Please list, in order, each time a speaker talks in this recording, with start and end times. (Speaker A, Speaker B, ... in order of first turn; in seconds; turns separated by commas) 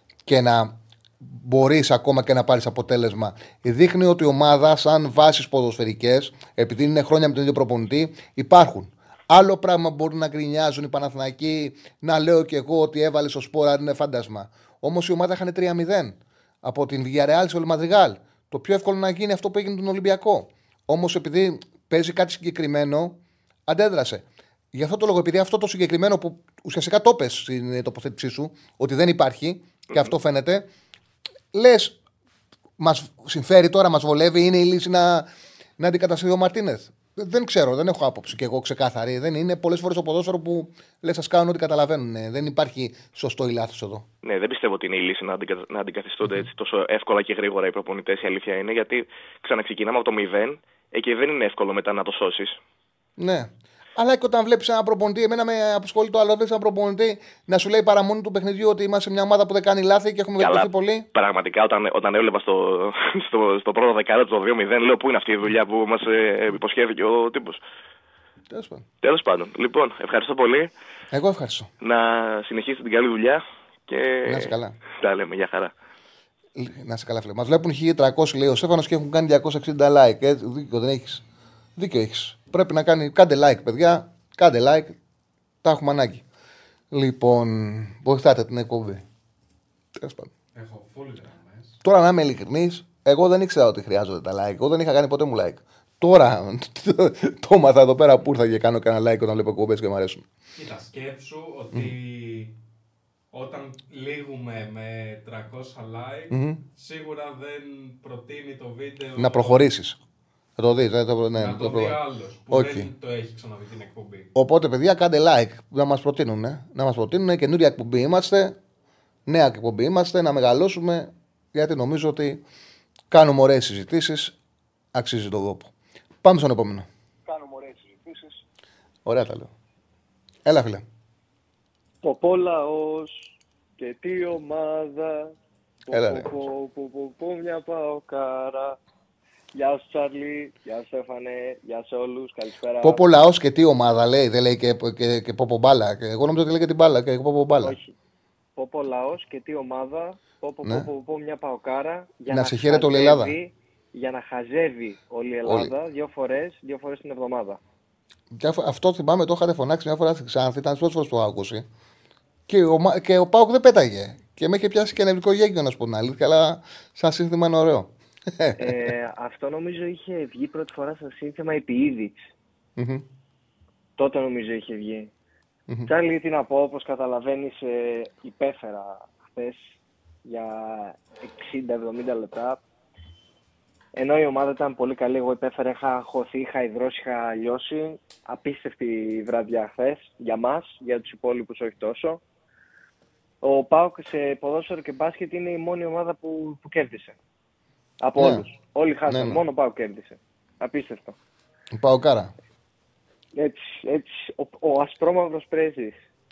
Speaker A: 0.3-23.2, Speaker A: 23.7-30.6, Speaker A: 31.5-32.0, Speaker A: 32.8-35.3, Speaker A: 35.8-44.1, Speaker B: 44.2-52.6, Speaker A: 53.2-61.1, Speaker B: 60.4-67.6, Speaker A: 68.5-68.8, Speaker B: 69.0-70.7, Speaker A: 71.1-71.7, Speaker B: 71.8-75.7, Speaker A: 74.2-74.8, Speaker A: 76.6-81.2, Speaker A: 81.8-85.0, Speaker A: 85.6-86.2, Speaker A: 86.9-89.0, Speaker A: 90.0-90.3, Speaker C: 90.5-91.8, Speaker A: 91.8-100.2, Speaker C: 100.5-102.5, Speaker C: 103.3-109.7, Speaker A: 106.3-106.6, Speaker A: 109.2-110.0, Speaker A: 110.6-112.0, Speaker C: 111.4-114.3, Speaker A: 112.5-112.9, Speaker A: 114.3-118.6, Speaker A: 119.3-122.4, Speaker A: 123.1-124.3, Speaker A: 124.9-125.7, Speaker A: 126.2-126.9, Speaker D: 127.3-128.4, Speaker A: 129.1-129.5, Speaker A: 130.5-130.8, Speaker D: 132.0-135.3, Speaker D: 135.9-138.8, Speaker A: 135.9-136.3, Speaker D: 139.5-143.0, Speaker A: 142.8-147.8, Speaker D: 147.6-147.9, Speaker D: 148.6-157.6, Speaker A: 150.6-150.9, Speaker A: 152.3-153.4, Speaker A: 155.4-155.7, Speaker A: 158.3-161.7, Speaker A: 162.5-168.9, Speaker D: 168.6-172.3, Speaker A: 172.8-173.1, Speaker D: 174.0-175.1, Speaker D: 175.9-182.6, Speaker D: 183.9-192.2, Speaker D: 193.4-197.2, Speaker D: 198.0-201.2, Speaker A: 198.2-198.5, Speaker A: 199.1-199.4, Speaker A: 201.8-202.3, Speaker D: 203.3-206.0